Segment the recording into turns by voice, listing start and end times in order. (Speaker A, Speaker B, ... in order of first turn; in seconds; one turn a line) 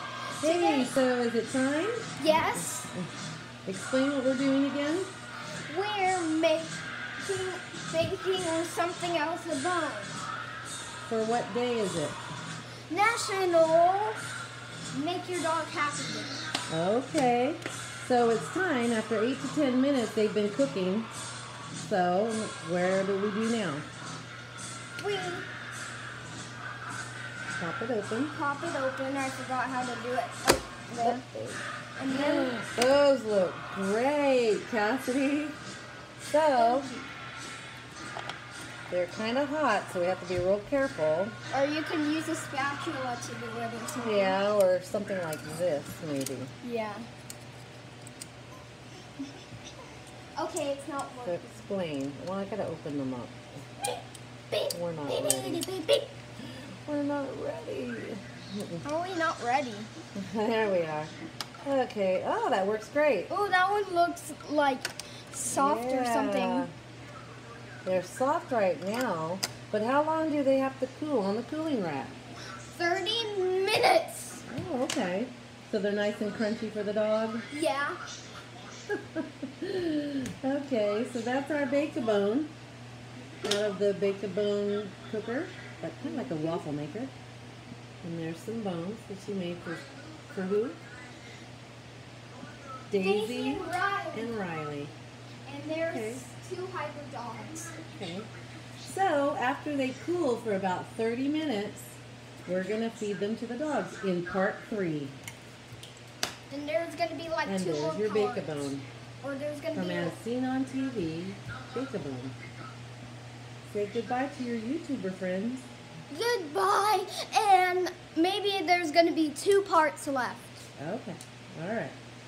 Speaker A: 0.4-3.1
Speaker B: 0.4-0.9
Speaker B: 2.2-2.9
Speaker A: 3.6-5.1
Speaker B: 5.7-10.2
Speaker A: 11.0-12.2
Speaker B: 12.9-14.2
Speaker B: 14.9-16.4
Speaker A: 16.7-21.1
Speaker A: 21.7-23.9
Speaker B: 25.0-25.5
Speaker A: 27.6-28.3
Speaker B: 28.3-31.2
Speaker A: 31.0-35.6
Speaker B: 31.9-32.5
Speaker A: 36.2-36.9
Speaker B: 36.5-37.0
Speaker A: 38.9-41.4
Speaker B: 41.5-44.4
Speaker A: 44.0-46.5
Speaker B: 46.6-47.1
Speaker B: 50.4-51.7
Speaker A: 51.2-53.6
Speaker B: 54.5-56.1
Speaker A: 54.7-55.6
Speaker A: 56.5-58.8
Speaker B: 58.8-59.9
Speaker A: 60.2-61.1
Speaker A: 61.6-63.3
Speaker B: 63.3-66.7
Speaker A: 65.5-66.7
Speaker A: 67.8-72.2
Speaker B: 72.5-74.4
Speaker A: 74.5-77.5
Speaker B: 77.5-78.0
Speaker A: 78.9-82.5
Speaker A: 83.4-87.1
Speaker B: 86.0-86.6
Speaker A: 88.0-90.8
Speaker A: 92.9-94.9
Speaker B: 93.0-94.3
Speaker B: 95.5-97.8
Speaker A: 95.9-96.2
Speaker A: 97.8-98.3
Speaker A: 98.8-105.2
Speaker B: 106.5-110.2
Speaker A: 107.5-108.8
Speaker A: 109.8-112.4
Speaker A: 113.6-115.7
Speaker B: 116.1-120.6
Speaker A: 120.8-122.0